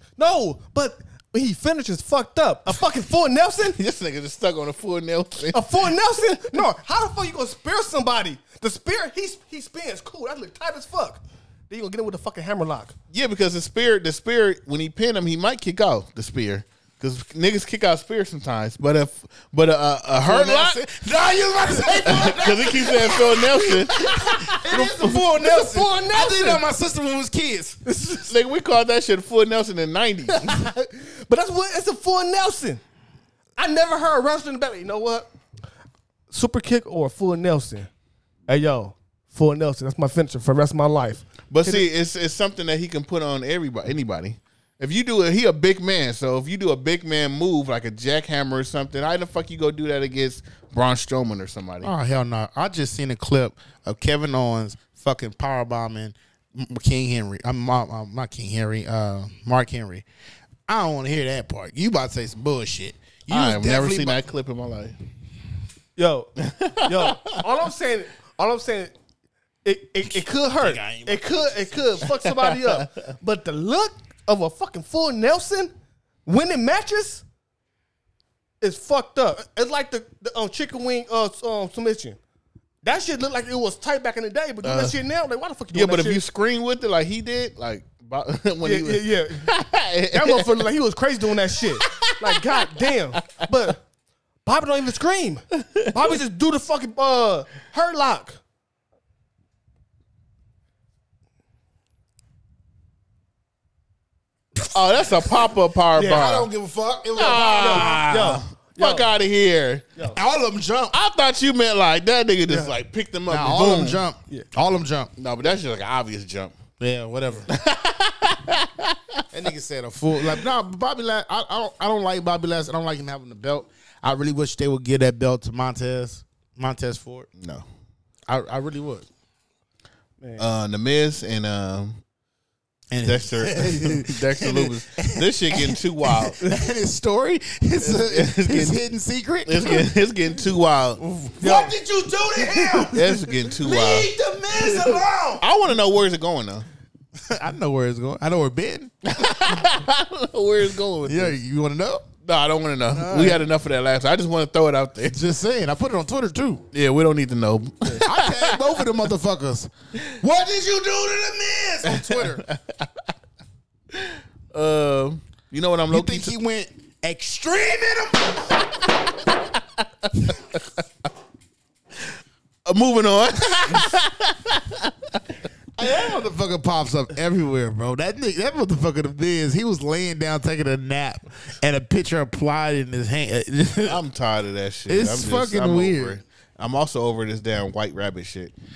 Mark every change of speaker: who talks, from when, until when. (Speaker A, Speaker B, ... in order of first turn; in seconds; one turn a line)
Speaker A: 0.2-3.8
Speaker B: 3.6-5.9
Speaker A: 5.5-12.9
Speaker B: 13.1-20.8
Speaker C: 20.1-27.8
Speaker B: 22.0-25.2
Speaker A: 25.3-26.6
Speaker A: 27.9-28.3
Speaker B: 28.3-30.4
Speaker A: 30.4-32.8
Speaker A: 33.5-35.3
Speaker A: 36.3-37.9
Speaker A: 38.5-41.9
Speaker B: 41.5-51.9
Speaker C: 51.8-60.0
Speaker C: 60.7-64.2
Speaker B: 63.3-65.0
Speaker A: 66.0-66.3
Speaker B: 66.4-67.4
Speaker A: 66.8-68.9
Speaker A: 69.6-75.7
Speaker C: 70.0-72.0
Speaker B: 72.0-72.8
Speaker A: 76.2-77.2
Speaker A: 78.6-82.2
Speaker A: 82.8-86.2
Speaker B: 84.6-85.0
Speaker B: 85.7-90.7
Speaker A: 88.6-89.5
Speaker A: 90.1-93.8
Speaker B: 91.8-92.1
Speaker A: 94.4-98.4
Speaker B: 104.6-106.5
Speaker A: 106.0-106.3
Speaker C: 106.1-108.3
Speaker B: 107.2-109.9
Speaker A: 107.6-109.1
Speaker C: 110.1-111.0
Speaker B: 110.9-114.0
Speaker A: 112.5-112.7
Speaker C: 113.3-115.1
Speaker B: 115.2-116.5
Speaker C: 116.8-117.5
Speaker B: 117.5-118.9
Speaker C: 119.3-127.3
Speaker B: 127.4-127.6
Speaker C: 128.3-129.1
Speaker A: 130.2-130.5
Speaker B: 130.4-132.0
Speaker C: 132.9-139.9
Speaker B: 133.0-136.4
Speaker B: 137.8-138.8
Speaker B: 139.4-141.0
Speaker C: 141.0-145.4
Speaker A: 141.4-141.7
Speaker B: 142.4-146.7
Speaker C: 147.3-148.9
Speaker B: 149.1-151.3
Speaker C: 151.0-152.1
Speaker B: 152.2-155.2
Speaker C: 152.9-153.4
Speaker C: 155.0-156.6
Speaker B: 156.7-158.8
Speaker C: 158.0-162.4
Speaker B: 161.8-162.8
Speaker B: 163.9-166.3
Speaker C: 165.9-168.6
Speaker B: 170.1-170.6
Speaker B: 172.7-174.9
Speaker C: 175.8-184.0
Speaker B: 183.8-188.5
Speaker C: 184.9-186.2